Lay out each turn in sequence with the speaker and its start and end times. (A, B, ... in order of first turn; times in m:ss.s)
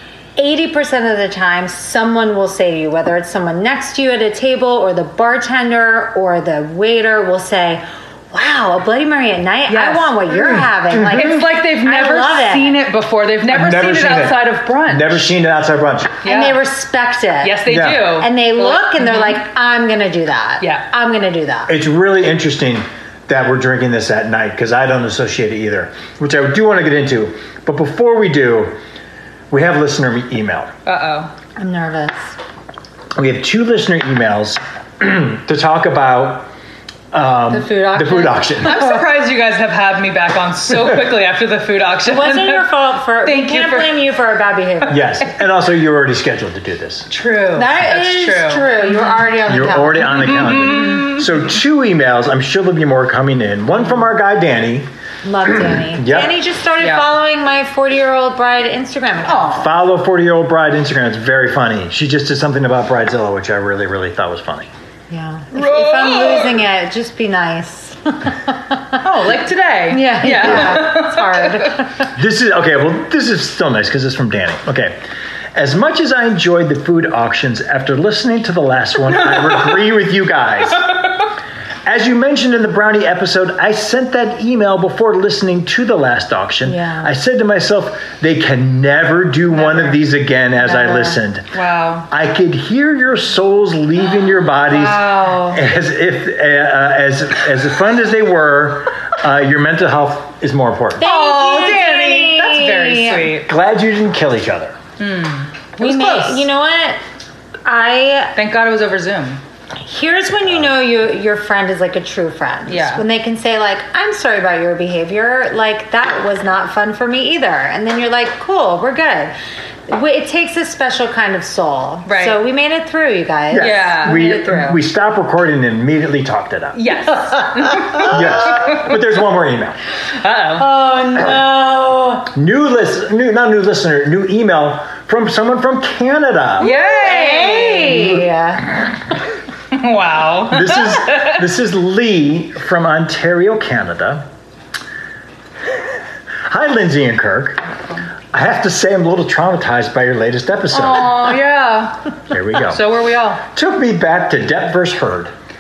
0:00.4-0:12.8 A
0:09.7-0:10.2 B
0:10.3-0:11.4 C
0:11.1-0:15.4 B
0:13.4-0:16.2 C
0:16.2-0:16.6 B
0:16.2-0:21.7 A
0:17.4-0:19.4 B
0:17.6-0:18.2 C
0:20.6-0:20.8 B
0:21.7-0:28.8 C
0:29.5-0:30.7 C
0:30.8-0:31.3 B
0:31.6-0:32.2 A
0:33.1-0:36.5 C
0:37.1-0:38.8 C
0:37.5-0:39.0 A
0:38.6-0:42.7 B
0:42.0-0:45.0 A
0:43.2-0:44.0 B
0:44.9-0:47.1 C
0:47.1-0:49.2 B
0:47.5-0:50.6 A
0:49.4-0:54.9 C
0:50.0-0:51.5 B
0:55.2-0:59.7 A
0:55.4-0:56.4 C
0:56.8-0:57.1 B
0:59.2-0:59.7 B
0:59.5-1:04.7 C
1:05.1-1:09.0 A
1:05.5-1:06.6 B
1:09.0-1:11.8 B
1:09.9-1:12.1 A
1:12.2-1:15.0 C
1:15.5-1:20.8 C
1:19.1-1:19.8 B
1:21.8-1:31.5 C
1:26.6-1:27.1 A
1:29.5-1:30.0 B
1:30.6-1:31.2 A
1:31.5-1:32.1 B
1:32.1-1:41.0 C
1:34.3-1:35.5 B
1:35.0-1:35.6 A
1:41.0-1:43.4 A
1:41.0-1:43.5 B
1:43.4-1:44.8 C
1:45.0-1:46.4 B
1:45.8-1:47.0 A
1:47.6-1:48.4 A
1:48.3-1:49.4 B
1:49.8-1:59.3 A
1:50.4-1:50.7 C
1:52.7-1:53.0 B
1:59.9-2:04.8 A
2:02.0-2:02.4 B
2:03.5-2:06.8 C
2:03.5-2:04.3 B
2:06.7-2:08.9 B
2:07.4-2:08.1 A
2:08.0-2:09.8 C
2:10.2-2:10.6 B
2:10.6-2:12.3 A
2:12.3-2:16.7 C
2:16.6-2:18.2 B
2:16.6-2:18.7 A
2:19.7-2:21.4 B
2:20.5-2:24.3 C
2:26.4-2:27.6 C
2:28.3-2:31.2 C
2:30.7-2:33.4 B
2:32.3-2:32.8 C
2:33.5-2:35.3 C